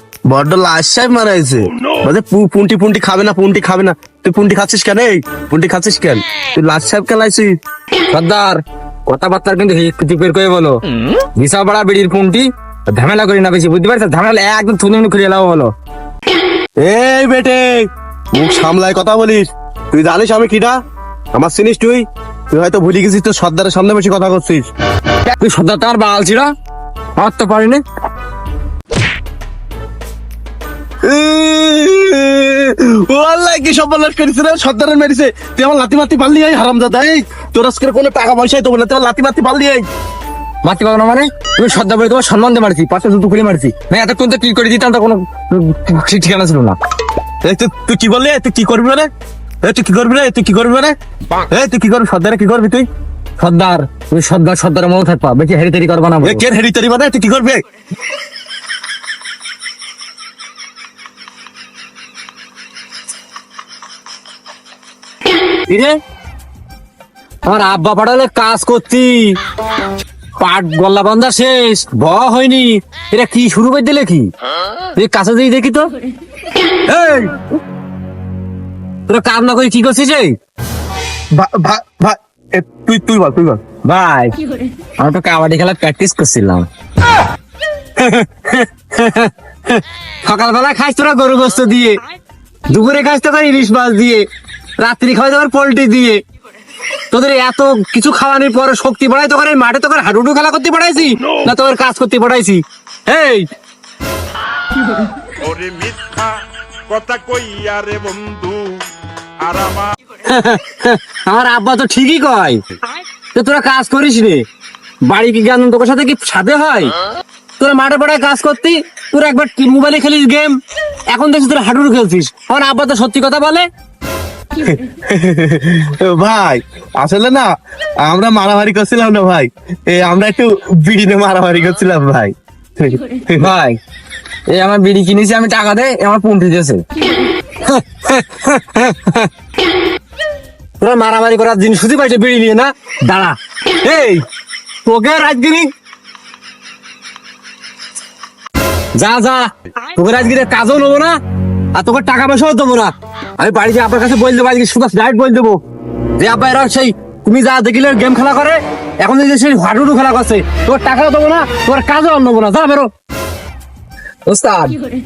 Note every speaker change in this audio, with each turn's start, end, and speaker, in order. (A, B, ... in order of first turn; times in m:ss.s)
0:00.3-0:07.5 A
0:08.1-0:15.7 B
0:16.8-0:20.8 A
0:21.3-0:24.7 A
0:25.3-0:26.5 B
0:27.2-0:27.8 B
0:31.0-0:39.8 A
0:40.6-0:46.8 B
0:47.4-0:49.1 A
0:49.6-0:52.9 A
0:53.4-0:56.4 B
0:56.2-0:57.6 A
1:05.7-1:06.0 B
1:07.4-1:09.4 B
1:10.4-1:14.3 B
1:15.0-1:16.0 B
1:16.9-1:17.3 B
1:19.1-1:20.4 B
1:21.3-1:23.6 A
1:23.8-1:24.4 B
1:25.0-1:26.7 B
1:28.0-1:32.0 B
1:32.7-1:34.3 B
1:34.8-1:36.2 B
1:37.1-1:43.5 B
1:45.4-1:48.9 C
1:49.4-1:49.9 C
1:50.2-1:52.6 B
1:53.3-1:54.5 B
1:55.0-1:57.0 B
1:57.6-2:03.7 B
2:04.6-2:07.5 A
2:08.0-2:13.5 A
2:13.4-2:13.8 B
2:14.5-2:16.8 B
2:17.6-2:19.3 B
2:20.8-2:24.2 B
2:24.8-2:25.7 B
2:29.0-2:31.2 B
2:31.7-2:35.6 B
2:36.2-2:42.9 B
2:44.3-2:44.8 B